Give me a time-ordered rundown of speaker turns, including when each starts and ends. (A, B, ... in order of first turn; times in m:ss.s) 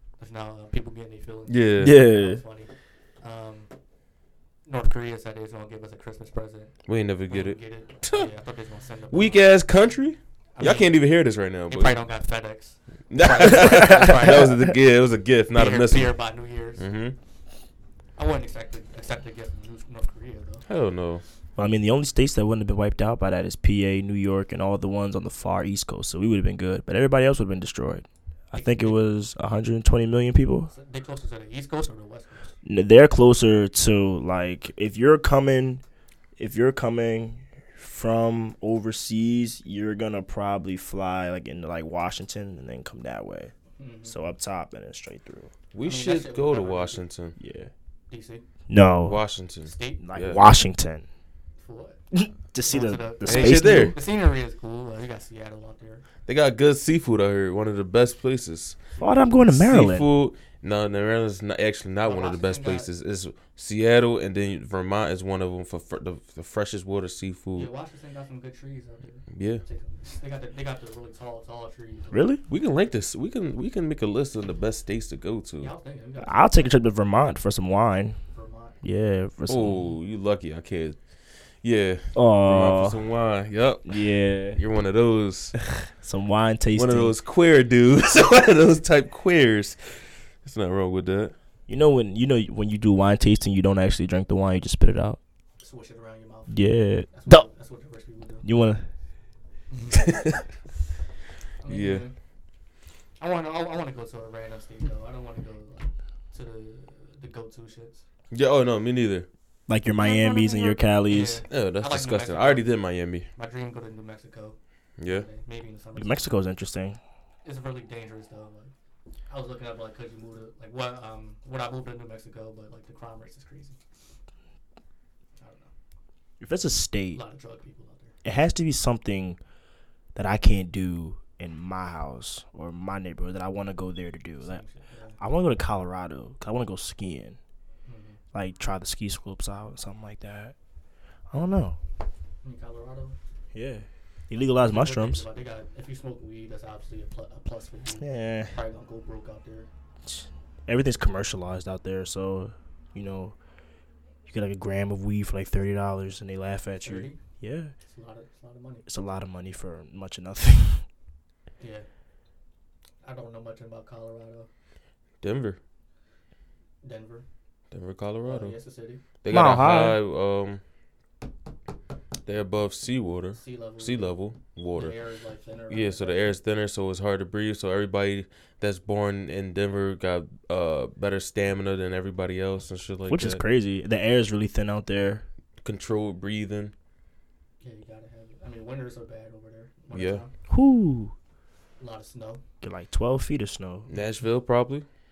0:00.2-0:03.7 A
0:01.5-0:02.0 B
0:01.8-0:02.4 C
0:04.7-0:06.8 A
0:06.9-0:08.3 B
0:07.3-0:09.4 A
0:09.1-0:12.0 B
0:10.6-0:10.9 A
0:11.7-0:14.7 A
0:13.1-0:16.1 B
0:15.5-0:16.8 A
0:16.8-0:17.2 B
0:18.2-0:20.6 A
0:20.7-0:21.2 B
0:21.6-0:30.7 C
0:28.5-0:29.0 A
0:30.7-0:32.5 A
0:32.6-0:35.8 C
0:36.4-0:43.5 C
0:43.8-0:44.2 A
0:44.0-0:45.5 C
0:45.7-0:47.4 B
0:45.8-0:47.0 A
0:47.4-0:47.7 C
0:48.1-0:48.4 A
0:48.7-0:49.2 C
0:49.0-0:50.4 B
0:49.7-0:50.0 A
0:50.0-0:51.0 C
0:51.6-0:52.0 A
0:52.1-0:54.0 C
0:52.7-0:56.0 A
0:53.2-0:54.0 B
0:56.3-0:58.8 B
0:59.0-1:00.1 C
0:59.5-1:07.7 B
1:02.0-1:02.9 A
1:07.6-1:12.3 A
1:09.3-1:09.6 B
1:12.1-1:12.4 C
1:12.5-1:15.7 B
1:15.6-1:16.8 A
1:16.2-1:18.2 C
1:18.3-1:18.8 A
1:18.8-1:19.8 C
1:19.5-1:21.0 B
1:21.6-1:23.9 B
1:22.2-1:23.0 C
1:23.9-1:24.6 C
1:24.5-1:25.6 B
1:25.6-1:27.1 C
1:26.8-1:29.8 B
1:30.4-1:31.3 B
1:31.7-1:35.2 C
1:35.6-1:38.4 A
1:36.5-1:37.5 C
1:38.4-1:38.9 C
1:39.7-1:40.2 A
1:39.9-1:40.4 B
1:41.6-1:42.1 A
1:41.7-1:42.0 B
1:43.2-1:48.0 A
1:48.3-1:49.3 B
1:49.7-1:51.4 C
1:51.1-1:52.7 A
1:51.5-1:53.3 B
1:53.4-1:56.3 A
1:55.0-1:55.3 B
1:56.0-1:57.0 C
1:57.4-1:58.7 A
1:59.3-2:03.8 A
2:05.4-2:05.7 A
2:06.4-2:07.2 C
2:07.1-2:08.1 A
2:08.2-2:09.4 C
2:10.2-2:14.6 C
2:14.4-2:15.2 A
2:15.2-2:17.4 C
2:17.9-2:18.2 A
2:18.3-2:20.6 C
2:21.3-2:21.8 C
2:22.4-2:23.2 A
2:23.5-2:25.2 C
2:24.6-2:29.7 A
2:28.0-2:28.5 C
2:30.1-2:33.4 C
2:34.3-2:37.7 C
2:36.8-2:37.2 A
2:37.8-2:38.9 A
2:38.9-2:40.8 C
2:41.6-2:41.9 A
2:43.0-2:44.5 A
2:45.2-2:45.6 B
2:46.8-2:47.2 A
2:47.7-2:48.6 B
2:48.2-2:49.0 A
2:49.2-2:50.6 B
2:49.3-2:50.0 C
2:52.3-2:55.0 B
2:53.4-2:54.1 A
2:54.8-2:56.3 A
2:55.7-3:03.4 B
3:03.1-3:05.2 C
3:05.6-3:06.7 B
3:07.6-3:10.3 A
3:09.9-3:10.2 B
3:10.5-3:11.1 C
3:11.8-3:12.4 A
3:12.6-3:13.9 C
3:13.9-3:14.9 B